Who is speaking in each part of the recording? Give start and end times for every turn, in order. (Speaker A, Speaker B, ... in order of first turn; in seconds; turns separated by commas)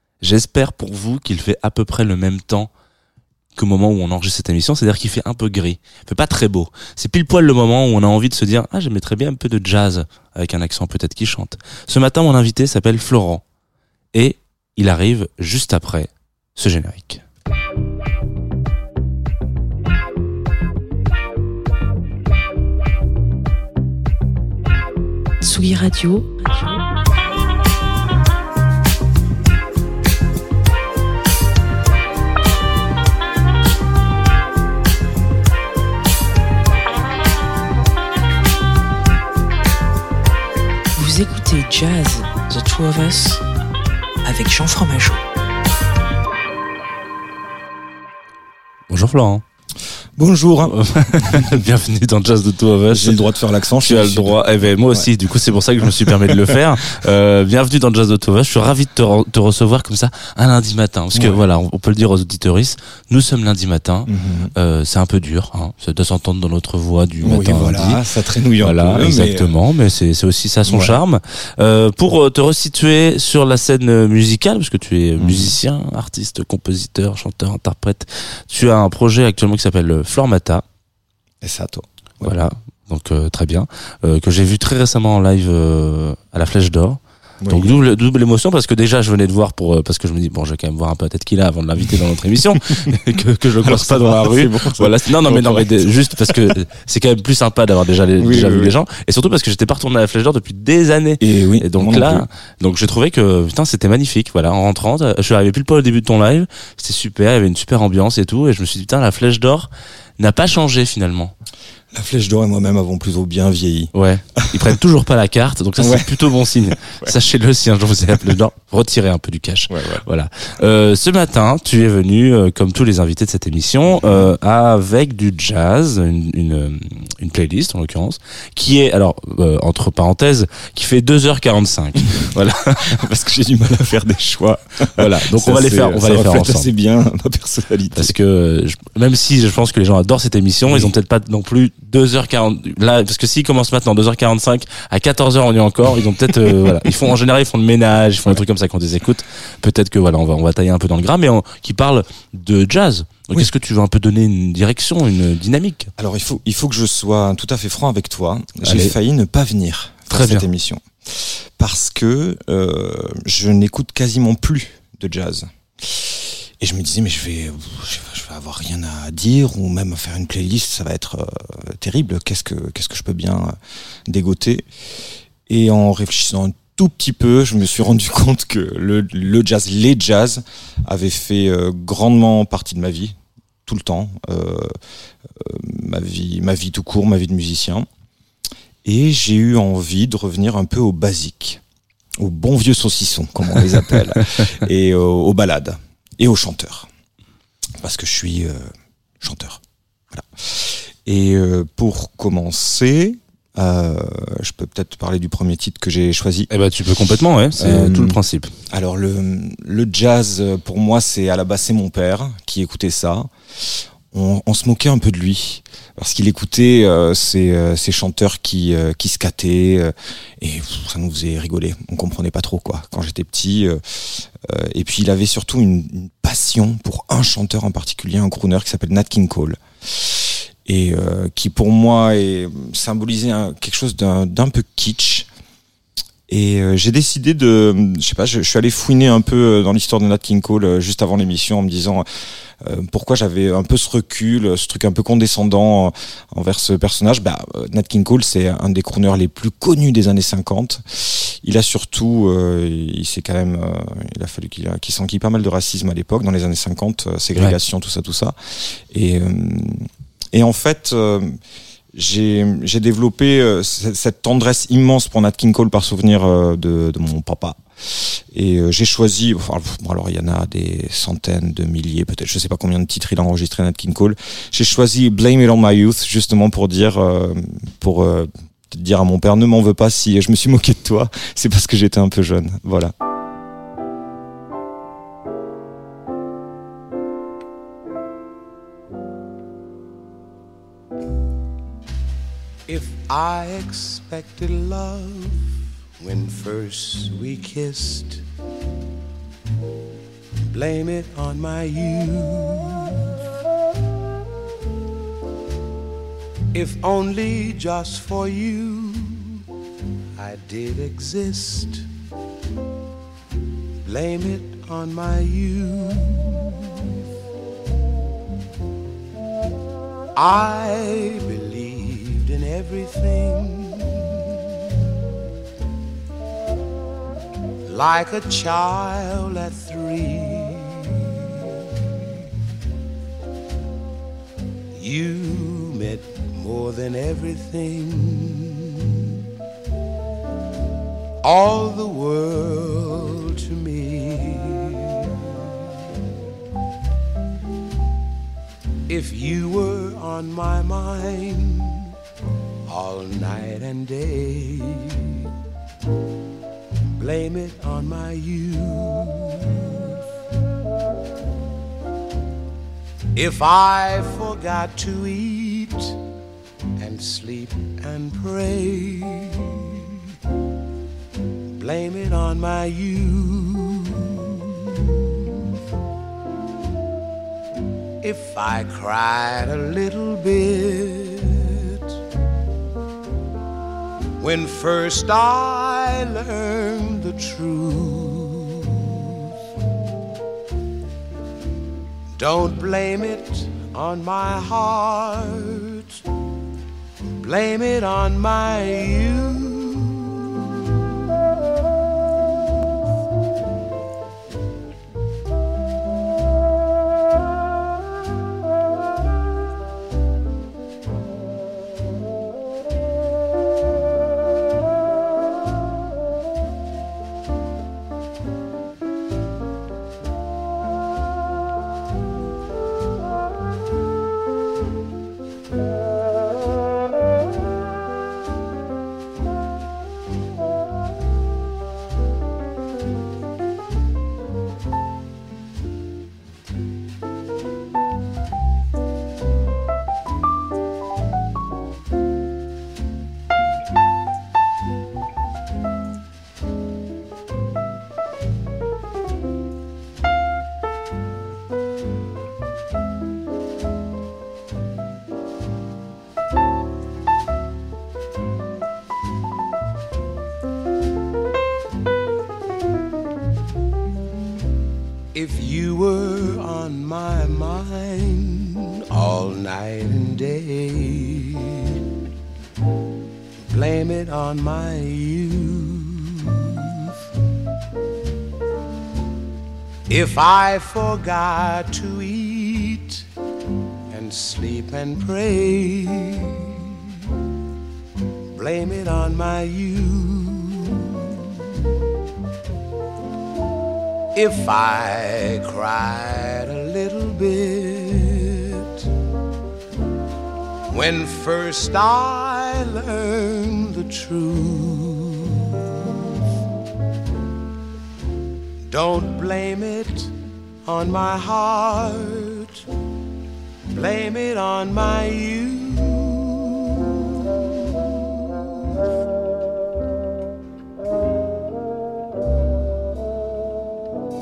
Speaker A: 0.2-2.7, Speaker A: 3.5-13.4, Speaker A: 14.1-17.2, Speaker B: 25.4-26.3, Speaker B: 41.0-43.4, Speaker B: 44.2-45.2, Speaker A: 48.9-49.4, Speaker C: 50.1-51.6, Speaker A: 50.7-53.2, Speaker C: 52.9-55.1, Speaker A: 53.8-68.0, Speaker C: 55.8-56.6, Speaker C: 61.1-61.4, Speaker C: 64.1-64.5, Speaker C: 67.2-69.5, Speaker A: 68.6-80.6, Speaker C: 70.6-71.0, Speaker C: 75.2-75.6, Speaker C: 81.4-82.4, Speaker A: 82.2-111.3, Speaker C: 87.4-87.8, Speaker C: 93.6-96.5, Speaker C: 98.2-98.7, Speaker C: 101.2-102.3, Speaker C: 111.9-114.6, Speaker A: 113.9-133.0, Speaker C: 115.8-117.2, Speaker C: 119.7-120.0, Speaker C: 124.0-124.2, Speaker C: 132.9-138.1, Speaker A: 135.0-136.7, Speaker A: 137.9-155.9, Speaker C: 140.7-140.9, Speaker C: 156.0-173.6, Speaker A: 158.6-158.9, Speaker A: 160.1-160.4, Speaker C: 174.1-174.7, Speaker C: 175.5-184.8, Speaker C: 185.3-187.9, Speaker C: 188.8-191.6, Speaker C: 192.2-196.9, Speaker C: 197.8-206.5, Speaker A: 206.5-208.5, Speaker C: 207.6-208.2, Speaker C: 208.7-235.3, Speaker C: 236.3-242.0, Speaker C: 242.6-261.4, Speaker C: 261.9-282.9, Speaker D: 292.7-295.5, Speaker D: 296.0-298.2, Speaker D: 300.5-303.0, Speaker D: 306.5-309.4, Speaker D: 310.2-311.9, Speaker D: 313.8-316.8, Speaker D: 320.1-324.3, Speaker D: 327.6-331.3, Speaker D: 334.7-339.0, Speaker D: 341.2-345.5, Speaker D: 348.9-351.9, Speaker D: 352.7-355.2, Speaker D: 357.0-359.9, Speaker D: 363.1-366.0, Speaker D: 366.8-369.8, Speaker D: 371.6-375.1, Speaker D: 378.0-381.8, Speaker D: 384.2-389.1, Speaker D: 392.1-396.0, Speaker D: 397.2-400.7, Speaker D: 465.1-471.8, Speaker D: 473.4-476.9, Speaker D: 479.9-483.0, Speaker D: 483.9-486.6, Speaker D: 488.3-491.2, Speaker D: 494.1-498.9, Speaker D: 500.7-505.8, Speaker D: 508.7-510.1, Speaker D: 510.6-512.6, Speaker D: 513.7-518.2